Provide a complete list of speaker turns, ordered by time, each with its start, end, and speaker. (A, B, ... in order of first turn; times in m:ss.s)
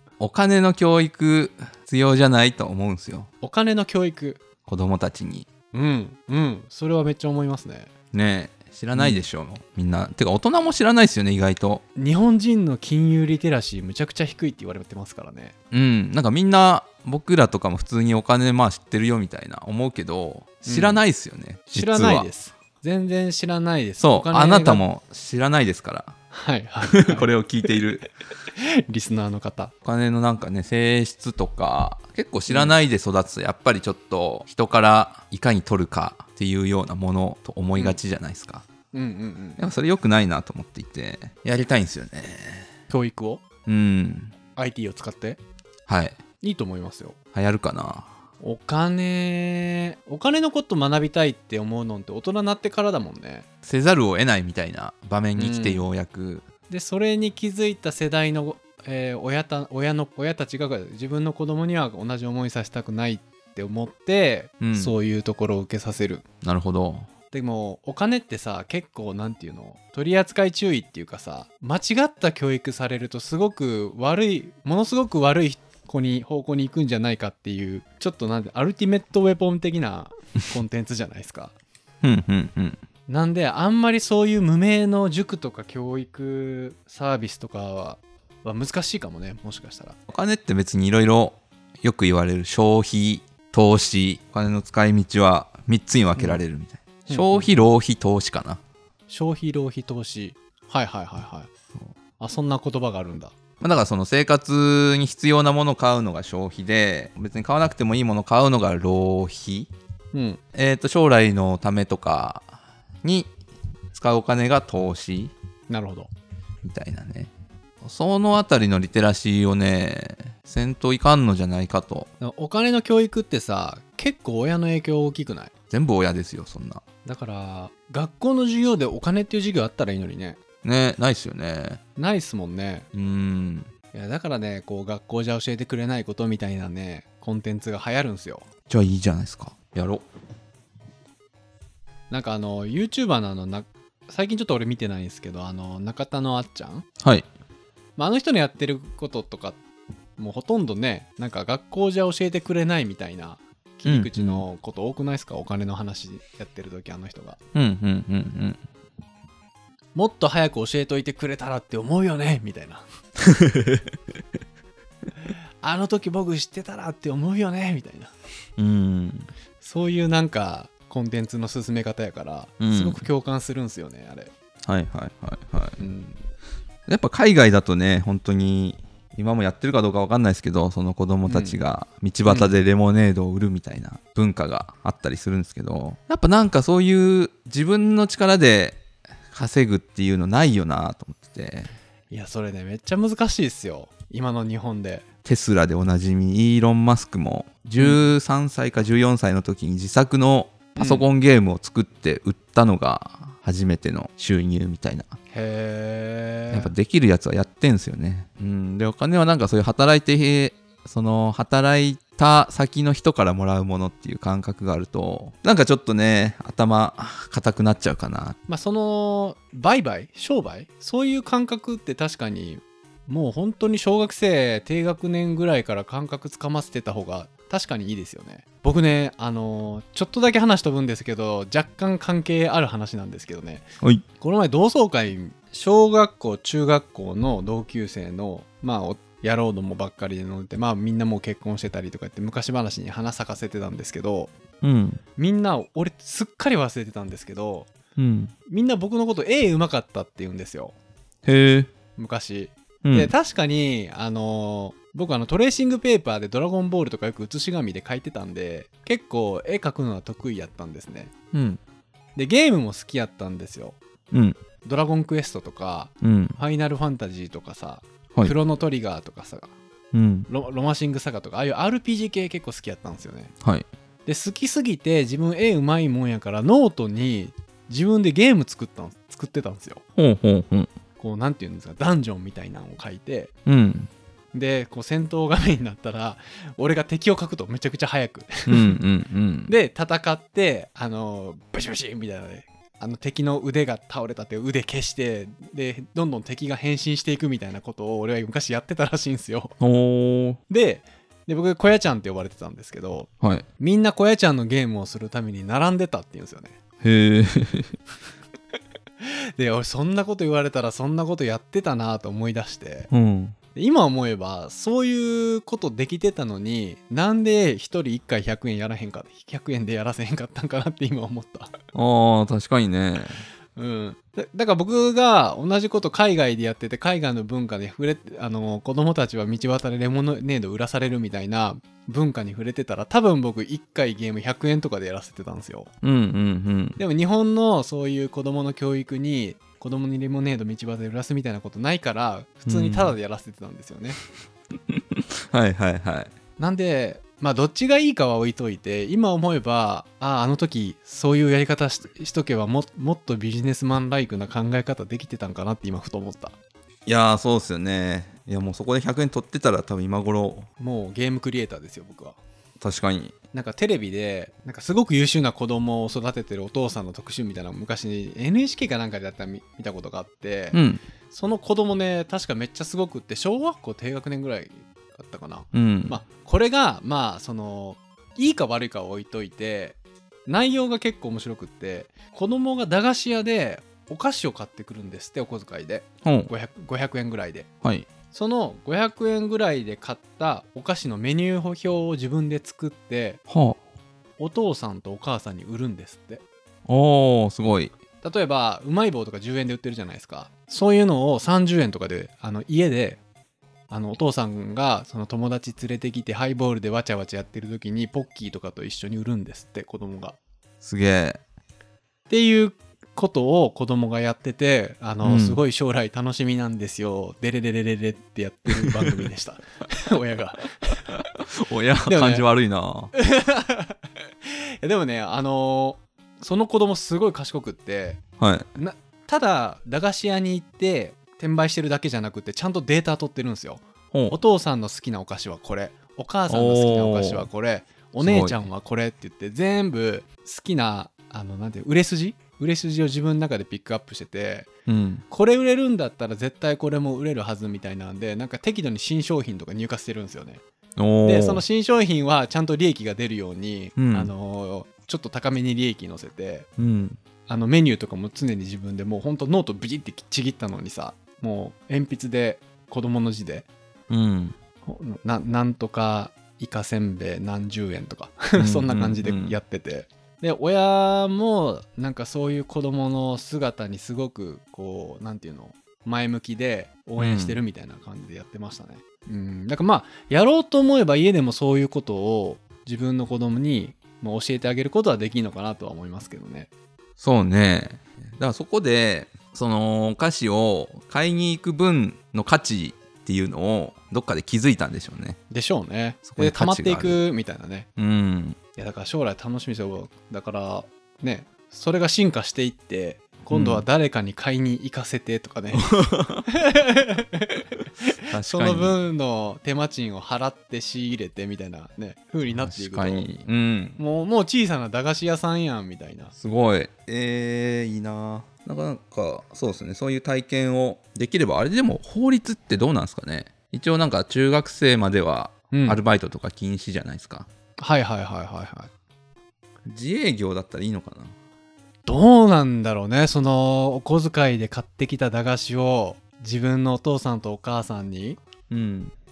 0:00.2-0:03.3 A
0:03.4-0:04.4 B
0:04.6-0:05.5 A
0:05.7-0:07.9 B
0:08.1-0:11.8 A
0:08.9-0:09.2 B
0:12.0-0:15.5 B
0:15.7-0:22.3 A
0:20.6-0:21.0 B
0:21.8-0:24.8 B
0:24.0-0:26.2 A
0:26.3-0:27.7 B
0:26.9-0:28.1 A
0:28.6-0:29.7 B
0:29.8-0:38.6 A
0:32.5-0:32.7 B
0:38.9-0:39.6 B
0:39.6-0:42.7 A
0:42.9-0:43.4 B
0:43.6-0:44.4 A
0:44.6-0:45.4 B
0:45.9-0:46.2 A
0:46.4-0:47.2 B
0:47.3-0:48.1 A
0:48.4-0:53.4 B
0:53.6-0:56.5 A
0:55.4-0:55.8 B
0:56.7-1:06.2 B
1:04.6-1:05.0 A
1:06.4-1:07.1 A
1:07.3-1:21.5 B
1:22.0-1:22.8 A
1:23.1-1:30.0 B
1:30.1-1:38.6 A
1:36.2-1:36.4 B
1:37.1-1:37.5 B
1:39.1-1:41.5 B
1:42.2-1:43.3 B
1:43.6-1:49.7 A
1:50.1-1:50.4 B
1:50.5-1:52.4 A
1:53.0-1:53.3 A
1:53.9-1:55.3 A
1:55.7-1:56.1 B
1:56.6-1:57.3 A
1:57.8-2:02.1 A
2:02.2-2:05.5 B
2:05.7-2:06.8 A
2:07.0-2:10.4 B
2:10.6-2:11.8 A
2:12.0-2:12.9 B
2:12.9-2:13.7 A
2:13.9-2:18.5 B
2:18.7-2:20.0 A
2:22.1-2:26.8 B
2:27.0-2:27.3 A
2:28.0-2:29.6 B
2:30.2-2:37.4 B
2:33.8-2:34.4 A
2:37.5-2:38.6 A
2:39.9-2:42.8 B
2:43.4-2:43.8 A
2:45.6-2:48.1 B
2:48.6-2:49.3 A
2:49.6-2:54.3 B
2:52.6-2:53.0 A
2:54.6-2:55.8 A
2:55.8-2:56.2 B
2:56.9-3:11.7 A
3:01.2-3:01.6 B
3:02.2-3:02.6 B
3:12.1-3:15.0 B
3:15.2-3:25.2 A
3:17.8-3:18.1 B
3:20.8-3:21.0 B
3:25.3-3:26.7 B
3:26.5-3:38.4 A
3:38.5-3:53.6 B
3:54.2-4:04.3 B
4:04.6-4:05.0 A
4:05.2-4:07.7 B
4:08.0-4:08.3 A
4:08.5-4:10.7 B
4:11.2-4:11.7 A
4:12.0-4:21.1 B
4:12.8-4:13.1 A
4:21.3-4:21.6 A
4:22.2-4:23.8 B
4:24.1-4:24.4 A
4:24.6-4:29.5 B
4:26.0-4:26.4 A
4:29.9-4:30.3 A
4:30.3-4:33.3 B
4:34.0-4:39.8 B
4:40.0-4:40.7 A
4:41.0-4:43.3 B
4:43.4-4:43.9 A
4:44.3-4:48.7 B
4:48.5-4:49.5 A
4:49.5-4:59.6 B
4:59.6-5:00.4 A
5:00.5-5:06.6 B
5:03.2-5:03.4 A
5:06.8-5:07.8 A
5:09.0-5:12.9 B
5:12.9-5:13.4 A
5:13.5-5:21.5 B
5:21.7-5:23.2 A
5:23.6-5:35.7 B
5:35.8-5:36.8 A
5:36.8-5:44.0 B
5:42.5-5:43.0 A
5:44.7-5:46.1 A
5:46.4-5:56.3 B
5:56.8-6:00.5 A
6:00.6-6:02.2 B
6:02.6-6:03.2 A
6:03.3-6:10.6 B
6:10.5-6:10.8 A
6:11.1-6:27.5 B
6:15.5-6:16.0 A
6:26.0-6:26.3 A
6:27.6-6:27.9 A
6:28.1-6:33.2 B
6:33.3-6:33.6 A
6:34.2-6:36.2 B
6:36.7-6:37.7 A
6:38.0-6:43.0 B
6:43.7-6:50.2 B
6:50.6-6:51.2 A
6:52.1-7:00.8 B
6:55.0-6:55.4 A
6:58.6-6:58.9 A
7:00.9-7:02.9 A
7:01.9-7:02.2 B
7:03.0-7:08.0 B
7:08.2-7:08.5 A
7:08.6-7:24.5 B
7:16.3-7:17.3 A
7:18.0-7:18.4 A
7:24.7-7:25.0 A
7:25.1-7:30.4 B
7:30.8-7:31.4 A
7:31.0-7:36.5 B
7:33.8-7:34.1 A
7:36.6-7:37.0 A
7:37.3-7:43.5 B
7:43.9-7:44.4 A
7:44.6-8:06.5 B
7:48.4-7:49.4 A
7:57.0-7:57.4 A
8:07.0-8:15.2 A
8:15.3-8:17.7 B
8:16.0-8:17.0 A
8:17.8-8:18.4 A
8:18.6-8:25.7 B
8:23.3-8:23.6 A
8:25.5-8:26.2 A
8:26.3-8:27.3 B
8:28.1-8:28.8 A
8:28.2-8:33.2 B
8:32.4-8:33.8 A
8:33.8-8:36.1 B
8:36.1-8:47.3 A
8:45.5-8:45.8 B
8:47.6-8:48.7 B
8:49.7-8:51.1 A
8:51.8-8:58.2 B
8:58.5-8:58.9 A